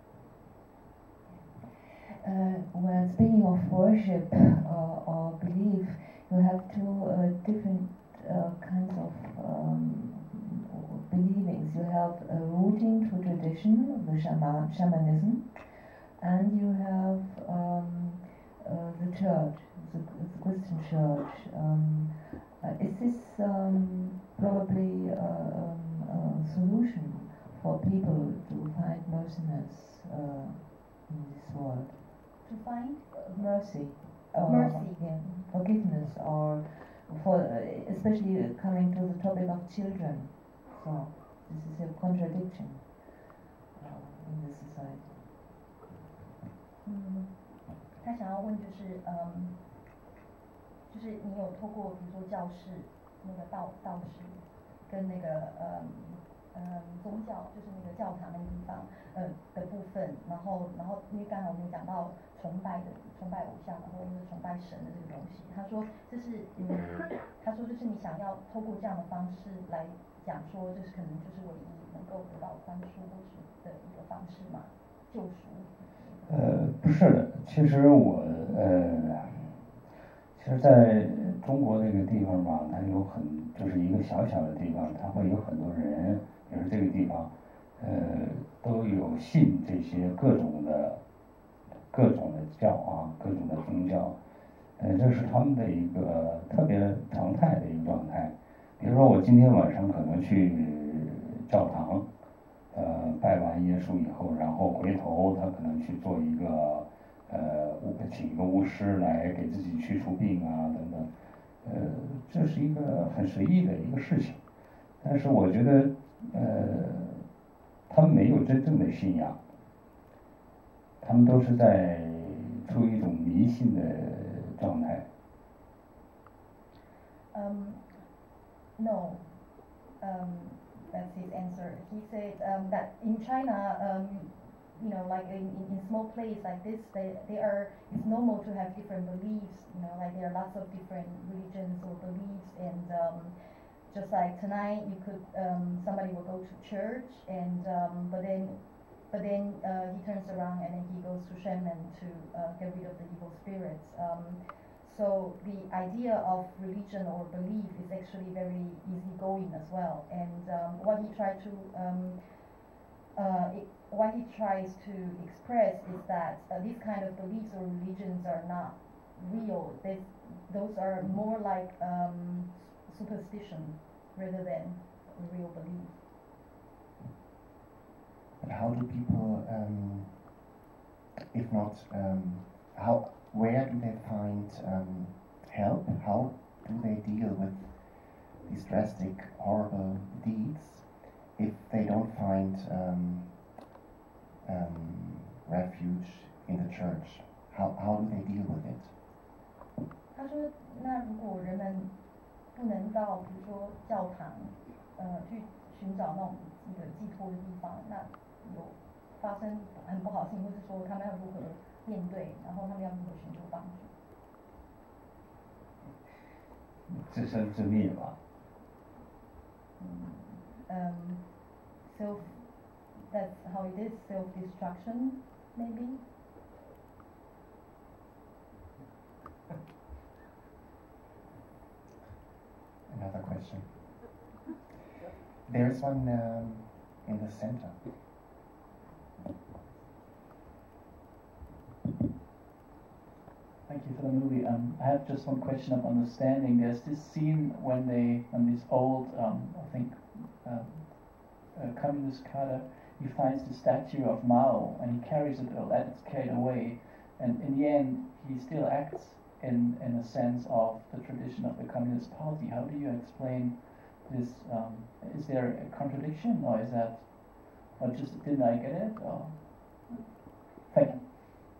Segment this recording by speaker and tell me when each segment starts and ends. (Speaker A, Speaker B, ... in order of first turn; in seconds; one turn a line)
Speaker A: 2.2-32.2
Speaker B: 32.4-33.2
Speaker A: 33.1-43.1
Speaker B: 34.5-35.4
Speaker A: 43.8-45.2
Speaker B: 46.8-47.4
Speaker B: 48.0-49.6
Speaker B: 50.9-76.3
Speaker C: 76.3-79.7
Speaker C: 80.3-91.0
Speaker C: 91.9-94.2
Speaker C: 94.8-102.1
Speaker C: 102.7-111.1
Speaker C: 111.6-114.4
Speaker C: 115.0-117.2
Speaker C: 117.9-119.4
Speaker C: 121.0-125.1
Speaker B: 127.3-127.8
Speaker B: 128.8-129.3
Speaker B: 130.0-143.3
Speaker B: 143.9-162.5
Speaker B: 163.2-176.0
Speaker D: 178.4-180.4
Speaker D: 181.3-193.5
Speaker D: 194.4-198.9
Speaker B: 200.1-201.9
Speaker B: 202.5-213.9
Speaker C: 216.9-218.2
Speaker B: 219.8-226.1
Speaker D: 232.9-233.9
Speaker D: 235.5-237.8
Speaker E: 243.7-270.0
Speaker B: 269.9-271.3
Speaker E: 270.6-271.0